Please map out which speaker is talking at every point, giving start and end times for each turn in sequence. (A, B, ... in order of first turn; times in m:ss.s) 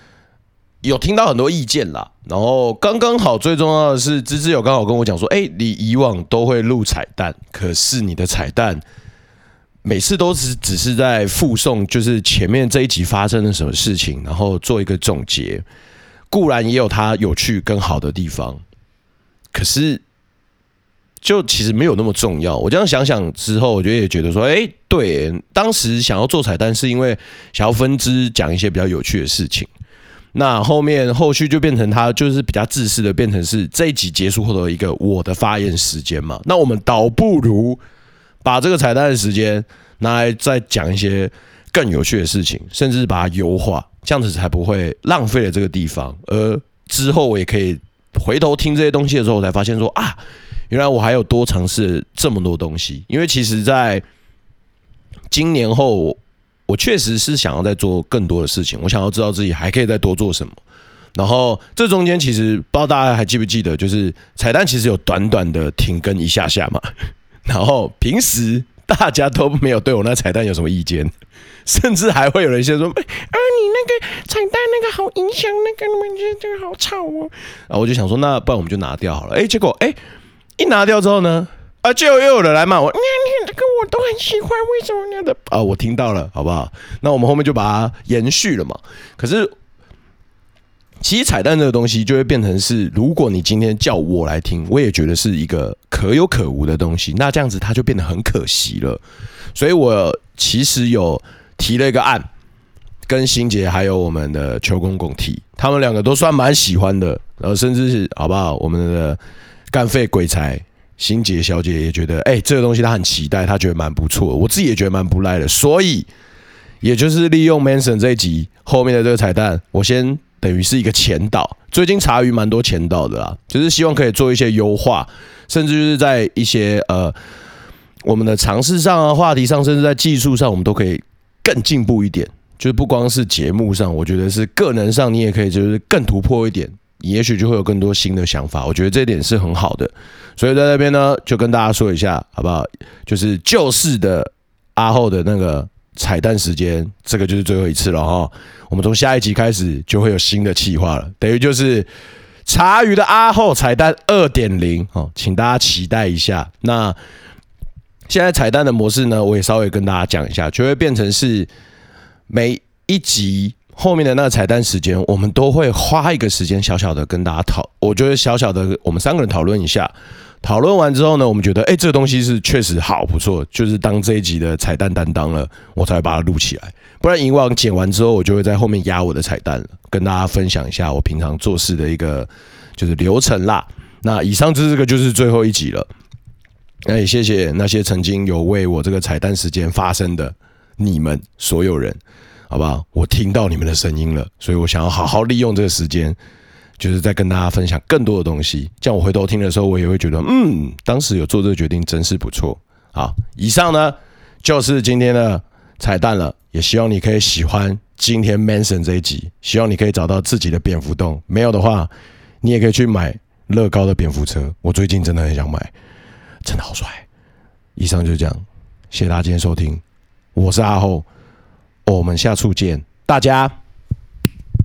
0:00.8-0:08.8 A
0:09.8-0:15.6 A
0:16.3-0:18.6 A
0:19.5-0:20.0 A
0:21.2-0:29.7 A
0:30.3-0:37.8 A
0:38.4-0:50.2 A
0:50.7-0:54.0 A
0:55.3-1:00.6 A
1:01.1-1:06.9 A
1:07.4-1:11.1 A
1:11.6-1:20.0 A
1:20.6-1:29.5 A
1:31.0-1:39.0 A
1:39.5-1:42.2 A
1:43.1-1:49.2 A
1:49.7-1:56.1 A
1:56.8-2:07.1 A
2:08.0-2:31.9 A
2:32.4-2:37.0 A
2:38.1-2:41.5 A
2:42.3-3:05.9 A
3:06.8-3:12.0 A
3:12.5-3:16.2 A
3:16.8-3:31.9 A
3:32.4-3:35.7 A
3:36.4-3:37.0 A
3:37.8-3:39.8 A
3:40.3-3:41.0 A
3:41.8-3:43.5 A